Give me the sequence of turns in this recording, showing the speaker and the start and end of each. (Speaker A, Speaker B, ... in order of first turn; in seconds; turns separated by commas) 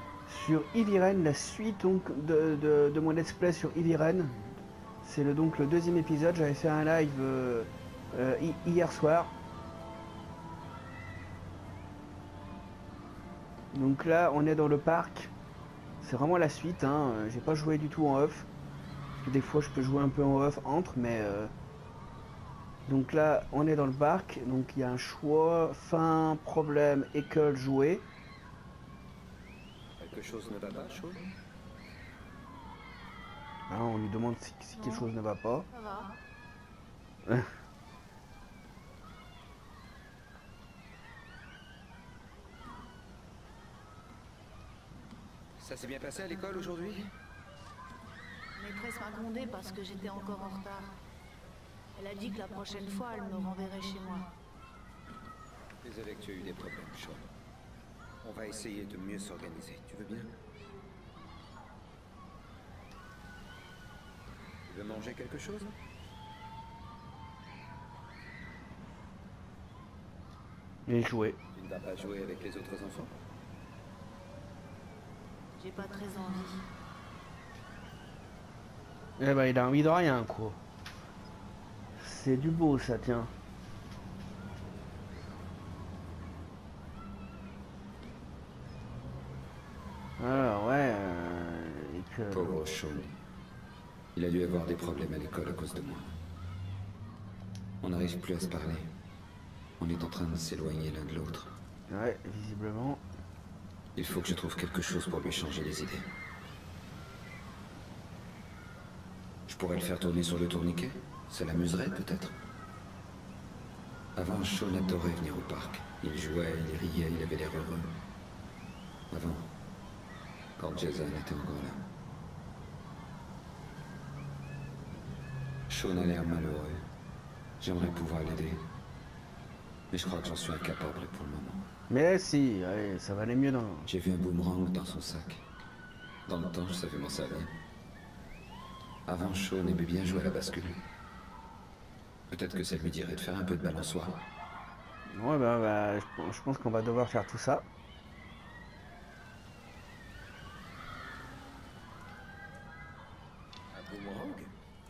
Speaker A: 0.3-4.4, Speaker A: 5.0-9.3, Speaker A: 13.7-15.3, Speaker A: 16.0-18.5, Speaker A: 19.2-21.5, Speaker A: 22.9-28.1, Speaker B: 30.0-31.3, Speaker A: 33.7-35.7, Speaker C: 34.8-35.0, Speaker C: 35.7-36.2, Speaker B: 45.6-47.1, Speaker C: 48.6-51.0, Speaker C: 52.0-54.3, Speaker B: 55.8-57.3, Speaker B: 58.2-60.4, Speaker B: 64.7-65.8, Speaker A: 70.9-71.4, Speaker B: 71.5-73.1, Speaker C: 75.6-76.7, Speaker A: 79.2-80.6, Speaker A: 82.0-83.3, Speaker A: 90.2-92.6, Speaker B: 92.3-93.2, Speaker B: 94.1-96.1, Speaker B: 97.8-99.0, Speaker B: 99.8-101.5, Speaker A: 101.9-103.0, Speaker B: 104.0-106.1, Speaker B: 109.5-112.4, Speaker B: 114.2-118.0, Speaker B: 119.1-119.5, Speaker B: 120.6-121.9, Speaker B: 125.7-126.8, Speaker B: 127.6-128.7, Speaker B: 129.9-131.7, Speaker A: 131.9-133.9, Speaker B: 133.9-135.4, Speaker B: 136.3-137.6, Speaker B: 139.1-140.8, Speaker B: 142.3-144.3, Speaker A: 145.1-147.7, Speaker B: 153.7-154.5